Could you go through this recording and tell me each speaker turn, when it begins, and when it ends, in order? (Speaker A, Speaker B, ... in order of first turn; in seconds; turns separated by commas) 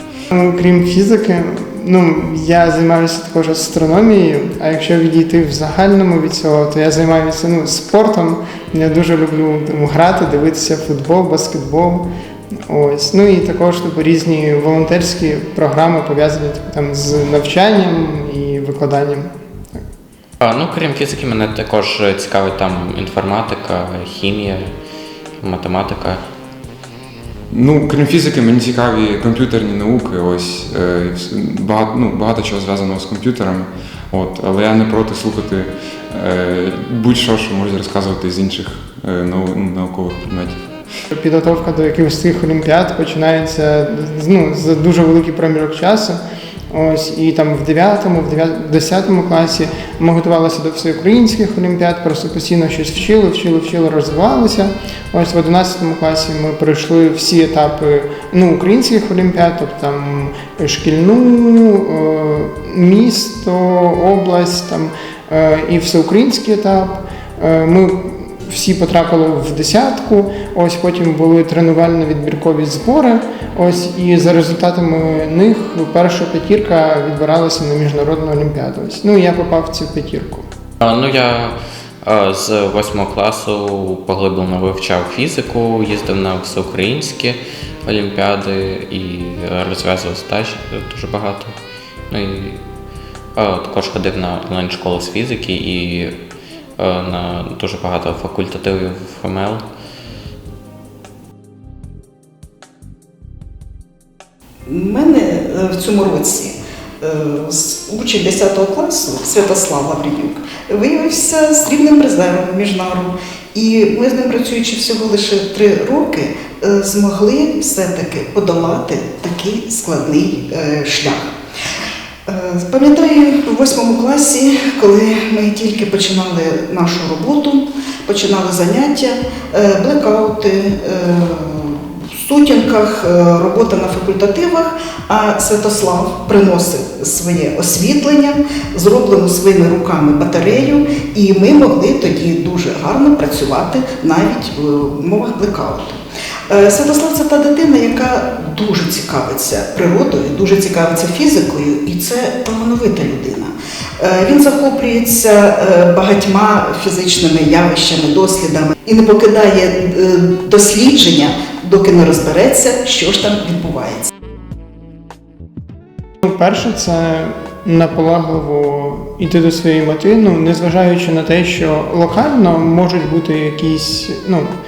Speaker A: 0.3-12.0, Speaker A: 12.7-19.3, Speaker B: 20.4-24.7, Speaker B: 25.4-26.2, Speaker C: 27.5-40.6, Speaker A: 41.1-80.4, Speaker B: 80.8-91.5, Speaker B: 92.1-92.6, Speaker B: 93.3-96.1, Speaker B: 96.8-99.6, Speaker D: 104.7-121.3, Speaker D: 122.3-164.1, Speaker A: 166.2-174.5